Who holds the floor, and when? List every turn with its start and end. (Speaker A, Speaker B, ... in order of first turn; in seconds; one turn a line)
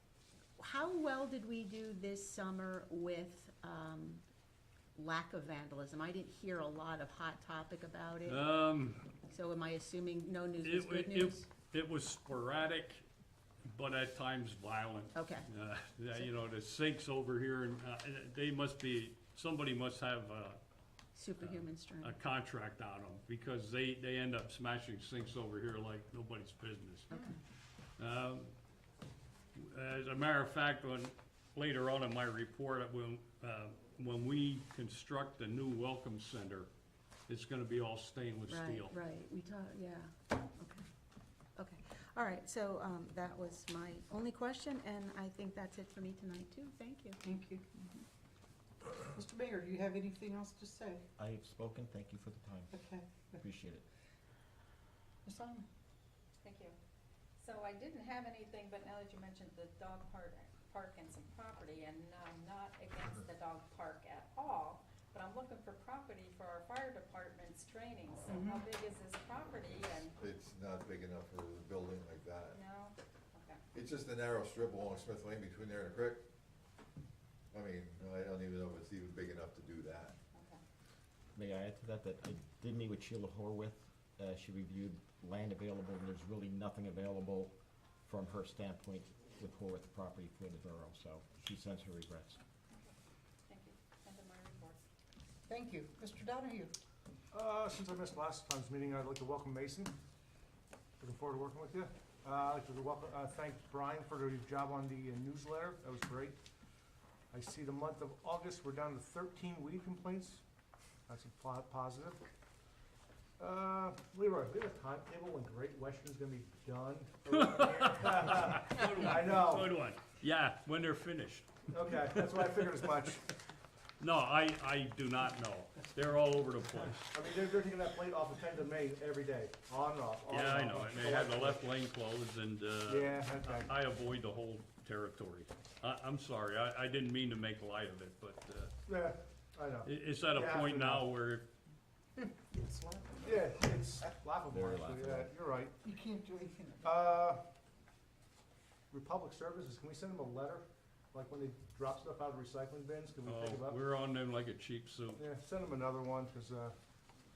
Speaker A: 0.6-4.2
Speaker A: 4.9-8.4
Speaker B: 8.2-9.0
Speaker A: 9.3-11.4
Speaker B: 10.6-13.0
Speaker B: 13.7-20.6
Speaker A: 15.1-15.5
Speaker A: 21.1-22.1
Speaker B: 21.4-27.3
Speaker B: 28.0-28.5
Speaker B: 29.5-36.7
Speaker B: 37.3-38.9
Speaker A: 38.5-40.9
Speaker A: 41.5-47.2
Speaker C: 47.2-47.7
Speaker C: 48.9-51.0
Speaker D: 51.2-52.7
Speaker C: 52.7-53.3
Speaker D: 53.4-53.8
Speaker C: 55.2-55.7
Speaker E: 56.4-56.7
Speaker E: 57.4-70.2
Speaker C: 68.3-68.6
Speaker F: 70.1-72.6
Speaker E: 72.5-73.6
Speaker F: 73.7-76.2
Speaker F: 77.5-80.2
Speaker E: 80.3-80.6
Speaker D: 81.3-87.5
Speaker D: 88.0-92.4
Speaker E: 93.5-94.8
Speaker C: 95.5-96.7
Speaker G: 97.3-99.9
Speaker G: 101.0-106.4
Speaker G: 107.3-110.4
Speaker G: 111.1-112.3
Speaker G: 113.4-119.8
Speaker B: 117.4-122.3
Speaker G: 121.7-123.3
Speaker B: 124.0-127.1
Speaker G: 127.1-131.6
Speaker B: 130.3-138.7
Speaker G: 132.9-133.7
Speaker G: 138.9-141.1
Speaker B: 139.8-141.4
Speaker C: 142.2-143.4
Speaker G: 143.2-145.8
Speaker D: 144.4-145.3
Speaker C: 145.8-146.9
Speaker G: 146.8-147.4
Speaker G: 148.9-153.8
Speaker B: 153.2-155.2
Speaker G: 155.2-156.8